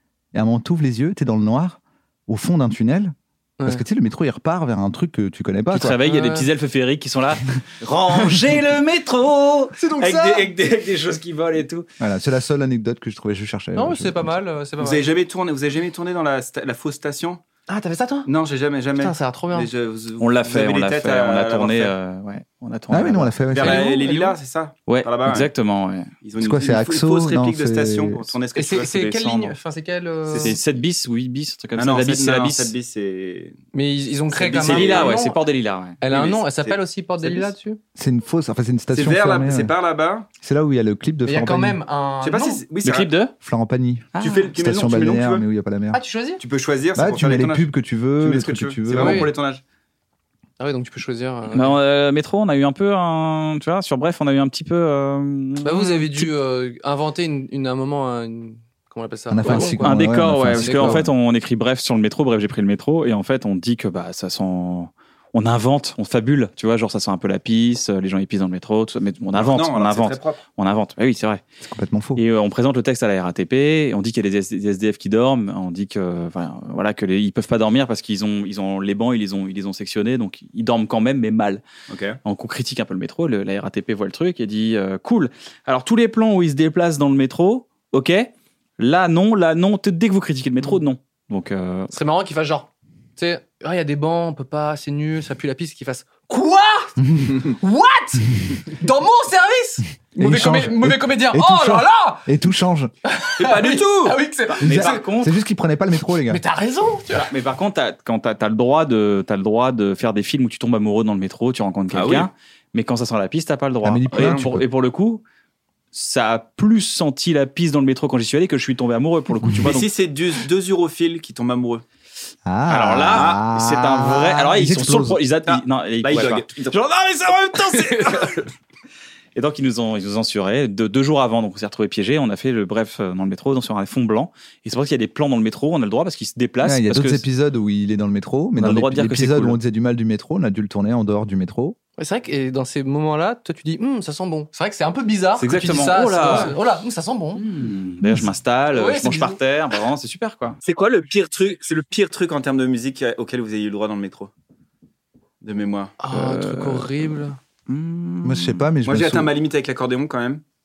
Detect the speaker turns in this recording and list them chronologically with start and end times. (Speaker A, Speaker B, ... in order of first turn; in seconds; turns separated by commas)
Speaker A: 0.3-6.0, Speaker B: 3.6-3.9, Speaker C: 5.7-11.9, Speaker B: 6.0-6.5, Speaker A: 9.8-10.3, Speaker A: 12.0-14.4, Speaker B: 13.8-15.1, Speaker D: 14.8-17.4, Speaker B: 17.7-18.3, Speaker D: 18.3-21.9, Speaker B: 19.0-19.7, Speaker C: 20.2-23.8, Speaker A: 22.9-23.9, Speaker D: 23.5-25.5, Speaker B: 23.6-24.3, Speaker C: 24.9-26.1, Speaker D: 26.2-29.5, Speaker A: 26.4-28.3, Speaker B: 28.6-30.6, Speaker D: 30.3-30.6, Speaker C: 30.4-32.7, Speaker D: 31.8-33.6, Speaker B: 33.7-35.4, Speaker D: 34.3-35.2, Speaker C: 34.6-36.0, Speaker B: 36.0-37.8, Speaker D: 36.1-37.5, Speaker A: 38.0-39.8, Speaker D: 38.9-40.3, Speaker A: 40.4-41.8, Speaker B: 41.2-42.6, Speaker D: 42.2-43.1, Speaker C: 42.8-43.3, Speaker A: 43.4-46.0, Speaker C: 44.1-44.7, Speaker D: 44.2-45.5, Speaker B: 45.9-46.4, Speaker D: 46.4-49.6, Speaker A: 47.0-49.3, Speaker B: 49.0-49.3, Speaker B: 50.6-51.8, Speaker C: 51.5-56.3, Speaker B: 55.6-60.0, Speaker A: 59.3-61.1, Speaker C: 59.5-71.4, Speaker B: 60.5-61.1, Speaker D: 69.4-70.4, Speaker A: 71.6-72.2, Speaker C: 72.2-81.6, Speaker D: 81.9-82.2, Speaker C: 82.2-91.9, Speaker B: 91.9-102.3, Speaker A: 100.2-102.9, Speaker B: 103.0-105.1, Speaker D: 103.4-104.2, Speaker C: 104.6-105.4, Speaker A: 104.6-106.4, Speaker B: 106.3-107.3, Speaker C: 107.3-115.2, Speaker D: 111.9-112.3, Speaker A: 113.8-114.7, Speaker D: 114.1-114.4, Speaker C: 115.9-119.9, Speaker D: 119.6-121.8, Speaker A: 122.5-125.3, Speaker C: 122.7-128.4, Speaker D: 123.2-123.4, Speaker D: 125.5-128.4, Speaker C: 129.3-137.2, Speaker A: 136.6-141.8, Speaker C: 138.6-139.6, Speaker B: 142.0-147.4, Speaker C: 145.4-146.6, Speaker C: 147.4-150.6, Speaker B: 148.7-149.4, Speaker D: 150.6-154.3, Speaker D: 155.4-155.9, Speaker B: 156.0-157.4, Speaker C: 156.1-158.7, Speaker A: 158.2-159.3, Speaker D: 158.8-160.4